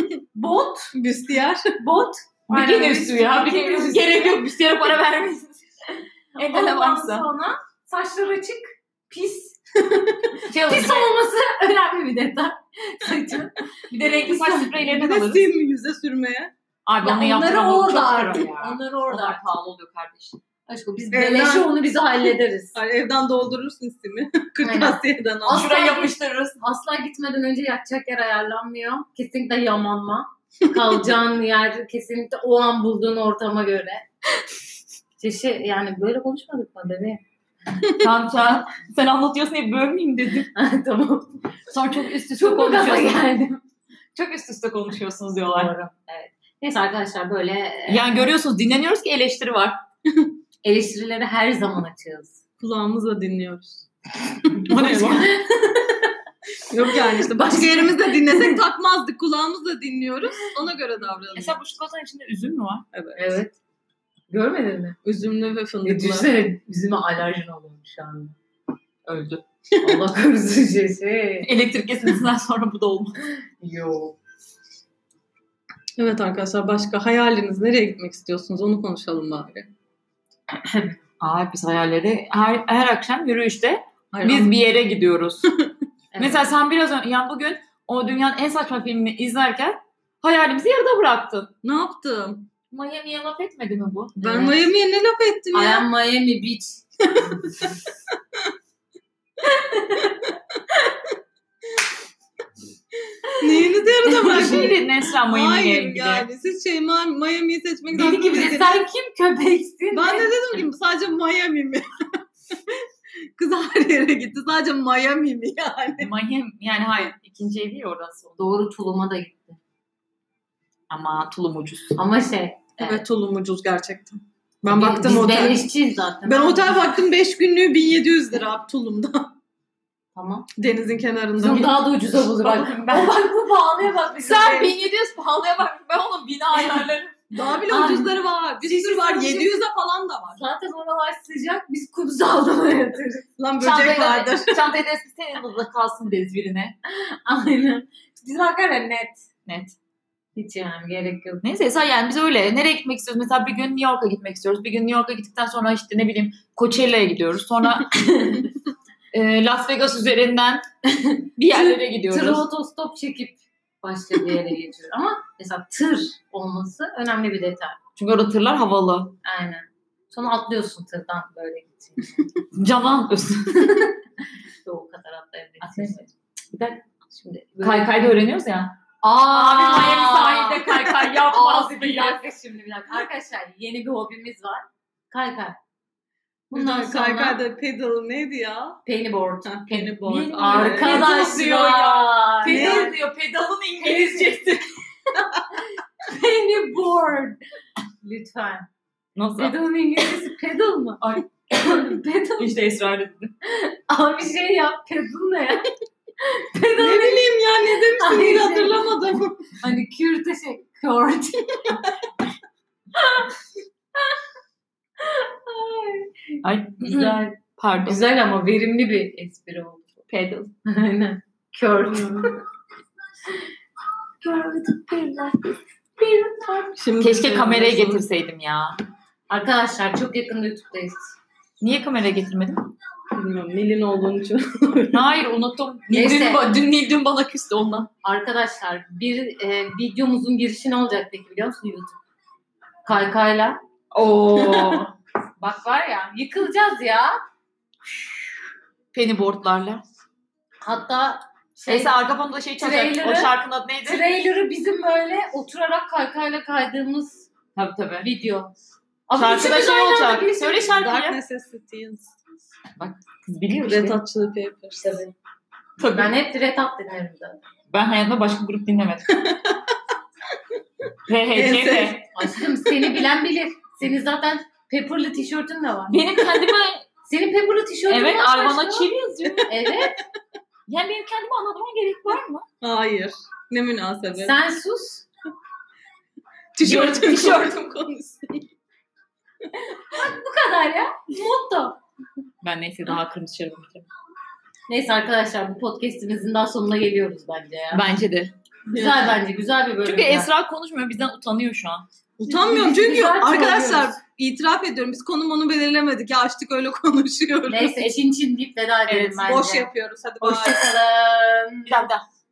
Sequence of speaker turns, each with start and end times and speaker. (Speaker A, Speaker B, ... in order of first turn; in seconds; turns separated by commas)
Speaker A: 0.3-0.9, Speaker B: 0.9-1.8, Speaker A: 1.8-4.4, Speaker C: 2.5-5.6, Speaker C: 6.4-7.3, Speaker A: 6.4-9.6, Speaker B: 9.8-10.4, Speaker C: 10.5-11.1, Speaker A: 10.5-14.8, Speaker C: 13.9-15.4, Speaker B: 14.8-16.5, Speaker C: 16.9-20.4, Speaker A: 17.0-19.5, Speaker A: 20.7-22.8, Speaker B: 21.1-21.8, Speaker B: 22.7-25.7, Speaker A: 24.6-34.0, Speaker C: 25.5-26.6, Speaker A: 35.2-37.2, Speaker C: 38.0-40.5, Speaker A: 40.5-41.3, Speaker C: 41.7-43.4, Speaker A: 42.4-43.6, Speaker C: 44.1-45.7, Speaker A: 45.5-48.3, Speaker C: 47.9-49.8, Speaker A: 50.6-52.4, Speaker B: 52.6-55.2, Speaker C: 54.7-55.4, Speaker A: 54.9-56.1, Speaker B: 56.7-61.6, Speaker A: 57.4-58.3, Speaker C: 61.3-62.9, Speaker B: 62.9-63.4, Speaker A: 63.2-63.6, Speaker A: 64.3-65.0, Speaker B: 65.0-66.3, Speaker A: 65.8-68.3, Speaker C: 69.1-69.4, Speaker A: 69.8-71.5, Speaker C: 71.4-73.1, Speaker A: 73.6-74.2, Speaker B: 76.0-79.7, Speaker A: 80.6-81.0, Speaker C: 81.2-85.5, Speaker B: 84.1-84.6, Speaker A: 86.1-86.5, Speaker C: 86.2-91.5, Speaker B: 91.6-92.5, Speaker C: 92.7-94.7, Speaker B: 94.2-95.9, Speaker A: 95.5-96.8, Speaker B: 97.1-97.7, Speaker A: 99.4-100.3, Speaker B: 103.4-108.8, Speaker C: 104.1-106.3, Speaker A: 107.9-110.6, Speaker B: 109.9-112.8, Speaker B: 113.4-116.1, Speaker C: 116.0-118.4, Speaker A: 118.4-119.6, Speaker C: 120.9-122.0, Speaker A: 122.0-123.0, Speaker B: 122.8-125.7, Speaker A: 124.7-126.8, Speaker B: 126.2-129.3, Speaker A: 130.1-130.5, Speaker B: 130.6-131.8, Speaker A: 131.4-134.7, Speaker C: 131.6-133.3, Speaker C: 134.2-137.2, Speaker B: 136.6-140.4, Speaker A: 137.7-139.6, Speaker A: 140.3-143.3, Speaker B: 143.4-144.7, Speaker C: 143.6-146.8, Speaker A: 146.9-149.2, Speaker C: 149.5-149.8, Speaker A: 150.4-151.4, Speaker C: 151.4-158.4, Speaker C: 159.1-160.7, Speaker A: 161.0-167.8, Speaker C: 161.4-162.5, Speaker C: 168.0-169.2, Speaker A: 169.2-172.4, Speaker C: 172.5-173.9, Speaker A: 174.6-176.1, Speaker C: 175.6-176.0, Speaker C: 176.5-182.2, Speaker A: 177.6-177.9, Speaker A: 179.0-185.6, Speaker B: 186.5-188.8, Speaker A: 186.5-187.4, Speaker A: 188.9-193.0, Speaker B: 189.4-191.1, Speaker C: 190.4-194.7, Speaker B: 192.4-193.0, Speaker A: 193.8-194.3, Speaker A: 196.0-197.4, Speaker A: 198.0-198.7, Speaker C: 199.2-199.6, Speaker A: 199.4-202.7, Speaker C: 201.0-201.8, Speaker C: 202.4-203.3, Speaker A: 203.5-205.7, Speaker A: 206.2-208.9, Speaker B: 206.8-209.6, Speaker A: 209.6-211.8, Speaker A: 212.9-213.3, Speaker A: 215.0-216.1, Speaker C: 216.4-218.0, Speaker A: 216.8-219.9, Speaker C: 220.1-220.5, Speaker A: 220.7-222.3, Speaker B: 221.9-222.3, Speaker C: 224.2-225.4, Speaker A: 226.0-226.7, Speaker B: 226.8-228.1, Speaker C: 227.0-228.8, Speaker A: 229.3-231.2, Speaker C: 231.6-232.7, Speaker B: 233.1-235.1, Speaker C: 234.9-237.9, Speaker A: 235.9-236.5, Speaker A: 238.0-242.0, Speaker A: 242.8-243.6, Speaker C: 243.9-244.9, Speaker B: 244.3-244.9, Speaker A: 245.4-247.2, Speaker C: 248.9-249.8, Speaker A: 250.6-251.9, Speaker C: 251.7-254.0, Speaker A: 252.6-257.3, Speaker C: 257.6-258.1, Speaker A: 258.0-258.5, Speaker A: 259.1-260.8, Speaker C: 259.1-261.2, Speaker B: 260.7-262.1, Speaker C: 262.8-264.0, Speaker B: 263.5-265.1, Speaker C: 265.8-266.1, Speaker A: 265.9-267.4, Speaker C: 267.7-269.1, Speaker B: 269.2-269.6, Speaker C: 271.1-272.0, Speaker B: 271.3-272.1, Speaker A: 272.1-276.0, Speaker C: 275.9-276.9, Speaker A: 277.1-278.9, Speaker C: 277.9-279.7, Speaker A: 279.5-280.0, Speaker C: 280.7-282.4, Speaker B: 282.6-284.4, Speaker A: 284.2-285.1, Speaker B: 286.6-288.5, Speaker C: 286.6-287.6, Speaker A: 289.9-291.8, Speaker C: 292.4-293.9, Speaker A: 294.7-297.9, Speaker C: 297.7-298.3, Speaker A: 298.7-300.3, Speaker B: 298.7-299.1, Speaker C: 299.9-301.9, Speaker B: 302.2-307.9, Speaker A: 302.3-304.0, Speaker A: 307.5-309.7, Speaker C: 308.9-309.2, Speaker B: 309.2-310.7, Speaker A: 310.2-311.9, Speaker C: 311.7-312.1